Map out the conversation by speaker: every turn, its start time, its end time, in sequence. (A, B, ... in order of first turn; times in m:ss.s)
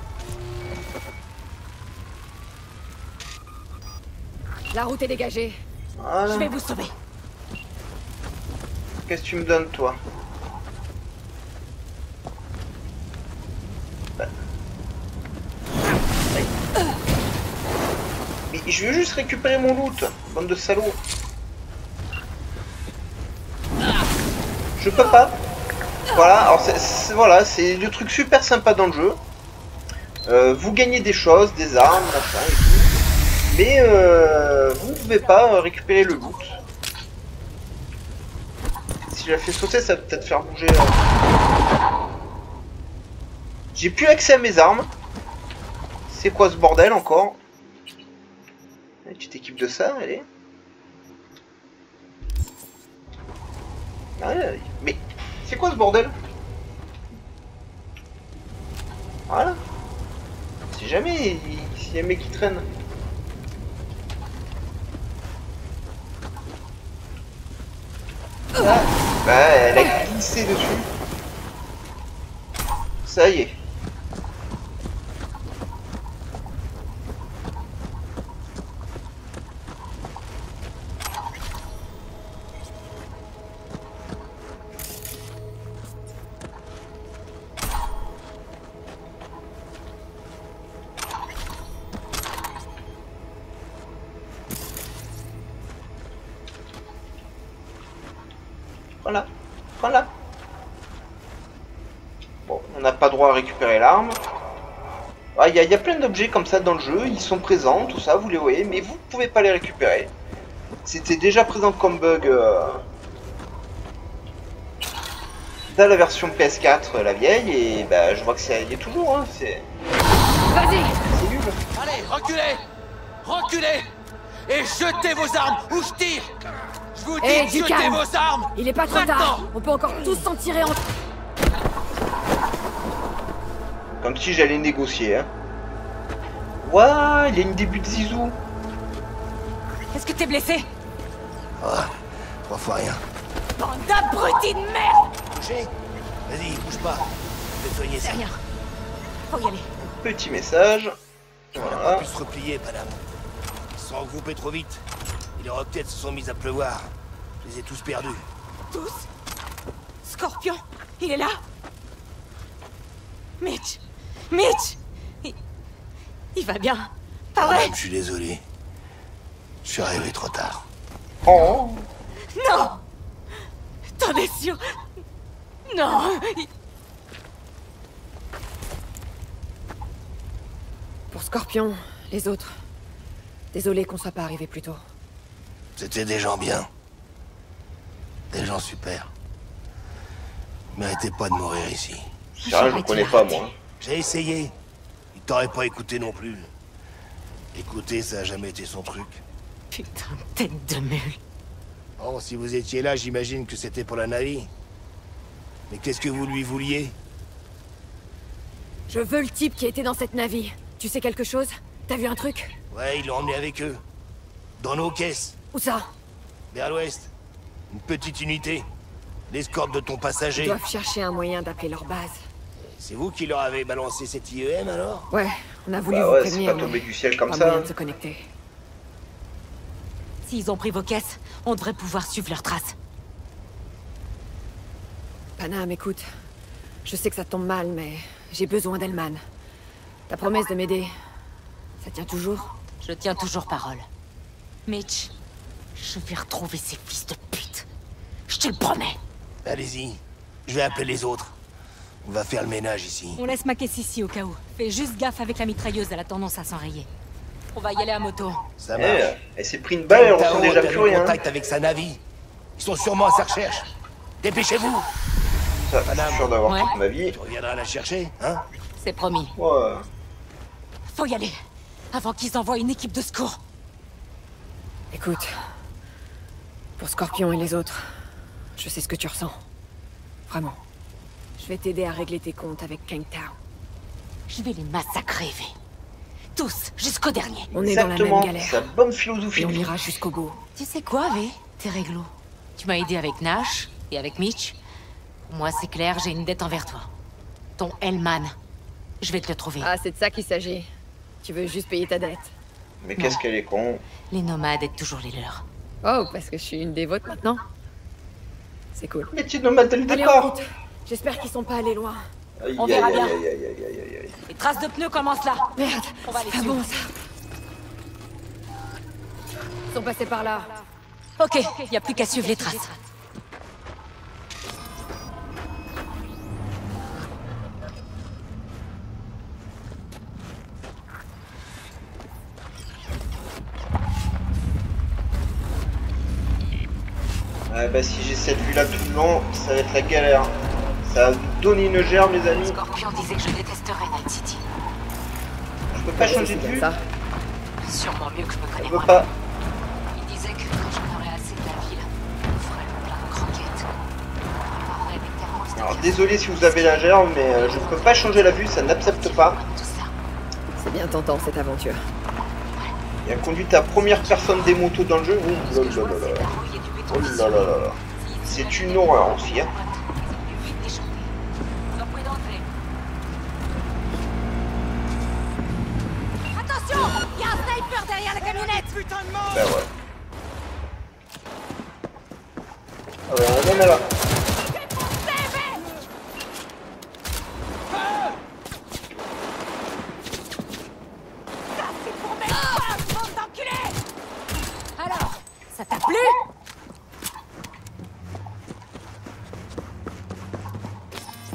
0:04.7-0:05.6 A
0:06.0-0:06.6 B
0:06.3-0:06.9 C
0:09.1-0:10.0 B
0:18.5-0:21.0 B
0:24.8-0:25.4 B
0:26.1-0:29.2 B
0:30.2-0:36.6 B
0:39.0-0:41.0 B
0:43.7-0:44.9 B
0:46.1-0:47.4 B
0:49.0-0:50.3 B
0:54.2-0:56.2 B
0:59.3-0:59.6 B
1:00.7-1:02.7 B
1:08.6-1:10.9 B
1:13.0-1:13.6 B
1:39.0-1:40.1 B
1:42.4-1:44.2 B
1:45.4-1:50.1 B
1:50.8-1:52.8 B
1:55.7-1:59.7 B
2:00.5-2:01.0 A
2:01.1-2:01.6 B
2:01.8-2:02.6 D
2:03.2-2:03.9 D
2:04.5-2:06.3 D
2:07.0-2:09.5 D
2:07.2-2:08.0 A
2:08.6-2:10.8 A
2:14.0-2:15.3 B
2:16.6-2:18.4 B
2:19.9-2:20.7 C
2:21.6-2:21.9 E
2:22.5-2:23.0 E
2:23.6-2:25.1 C
2:25.3-2:25.7 E
2:26.3-2:28.2 E
2:28.0-2:28.4 C
2:29.3-2:29.7 C
2:29.9-2:31.0 B
2:31.5-2:32.1 B
2:31.6-2:33.0 E
2:33.8-2:34.8 E
2:35.4-2:36.9 E
2:37.4-2:38.3 E
2:38.7-2:39.1 C
2:40.0-2:41.4 C
2:43.4-2:45.4 C
2:46.4-2:47.7 C
2:47.4-2:48.4 E
2:49.6-2:50.6 E
2:51.2-2:51.9 B
2:52.4-2:52.8 C
2:54.0-2:54.6 C
2:55.7-2:56.5 C
3:01.1-3:02.5 A
3:03.5-3:04.8 A
3:05.8-3:06.7 E
3:08.3-3:09.1 E
3:10.8-3:12.1 E
3:12.4-3:13.6 B
3:12.4-3:13.4 C
3:13.8-3:14.5 E
3:15.2-3:16.5 E
3:17.5-3:19.2 E
3:19.7-3:21.2 C
3:22.0-3:24.5 E
3:25.7-3:27.0 E
3:28.9-3:32.6 A
3:32.7-3:33.8 E
3:34.6-3:35.4 E
3:35.5-3:35.9 A
3:36.5-3:37.1 E
3:37.7-3:38.7 E
3:39.3-3:40.6 E
3:40.4-3:42.2 A
3:42.8-3:45.1 E
3:45.1-3:48.3 A
3:45.9-3:47.7 B
3:50.2-3:52.8 C
3:55.4-3:56.1 A
3:56.8-3:59.2 A
4:00.1-4:00.9 A
4:01.8-4:02.5 A
4:02.8-4:03.9 C
4:04.7-4:05.1 C
4:05.8-4:07.7 C
4:08.3-4:09.0 C
4:09.4-4:11.3 E
4:12.0-4:13.2 E
4:13.2-4:16.9 C
4:17.6-4:18.4 C
4:18.6-4:19.1 E
4:18.8-4:21.2 B
4:19.9-4:22.0 E
4:22.6-4:23.7 E
4:24.2-4:24.9 E
4:25.7-4:27.2 B
4:25.9-4:26.3 E
4:26.5-4:26.8 C
4:27.1-4:28.4 E
4:28.8-4:29.3 C
4:29.4-4:29.9 B
4:30.9-4:31.4 C
4:31.9-4:33.4 C
4:34.9-4:35.4 A
4:36.8-4:37.9 A
4:38.6-4:39.4 A
4:40.3-4:40.6 A
4:41.4-4:43.4 A
4:44.3-4:45.5 C
4:46.4-4:47.5 C
4:47.5-4:48.6 A
4:47.5-4:49.8 B
4:49.4-4:50.4 A
4:50.6-4:54.6 C
4:55.2-4:56.9 C
4:57.6-4:58.4 C
4:59.0-4:59.7 C
4:59.6-5:00.7 A
5:01.2-5:02.3 A
5:02.8-5:03.8 B
5:04.1-5:05.4 C
5:05.8-5:07.4 A
5:08.8-5:09.1 A
5:09.1-5:10.4 B
5:09.9-5:12.0 A
5:12.4-5:14.2 B
5:12.6-5:13.2 C
5:14.3-5:15.5 C
5:15.6-5:16.9 A
5:16.0-5:16.7 C
5:19.7-5:20.5 A
5:21.2-5:22.8 C
5:21.9-5:22.7 A
5:37.5-5:42.6 B
5:42.3-5:44.4 C
5:45.7-5:46.7 B
5:46.0-5:46.8 A
5:47.6-5:49.1 C
5:48.6-5:49.1 B
5:50.0-5:53.7 C
5:54.6-5:59.9 C
5:55.6-5:59.4 B
6:00.6-6:01.8 A
6:03.0-6:06.3 B
6:03.7-6:04.6 C
6:05.3-6:11.1 C
6:06.9-6:09.5 B
6:11.8-6:12.5 C
6:16.3-6:19.2 C
6:19.3-6:19.7 B
6:23.1-6:23.8 B
6:24.6-6:25.6 C
6:31.6-6:33.8 C
6:34.8-6:36.2 C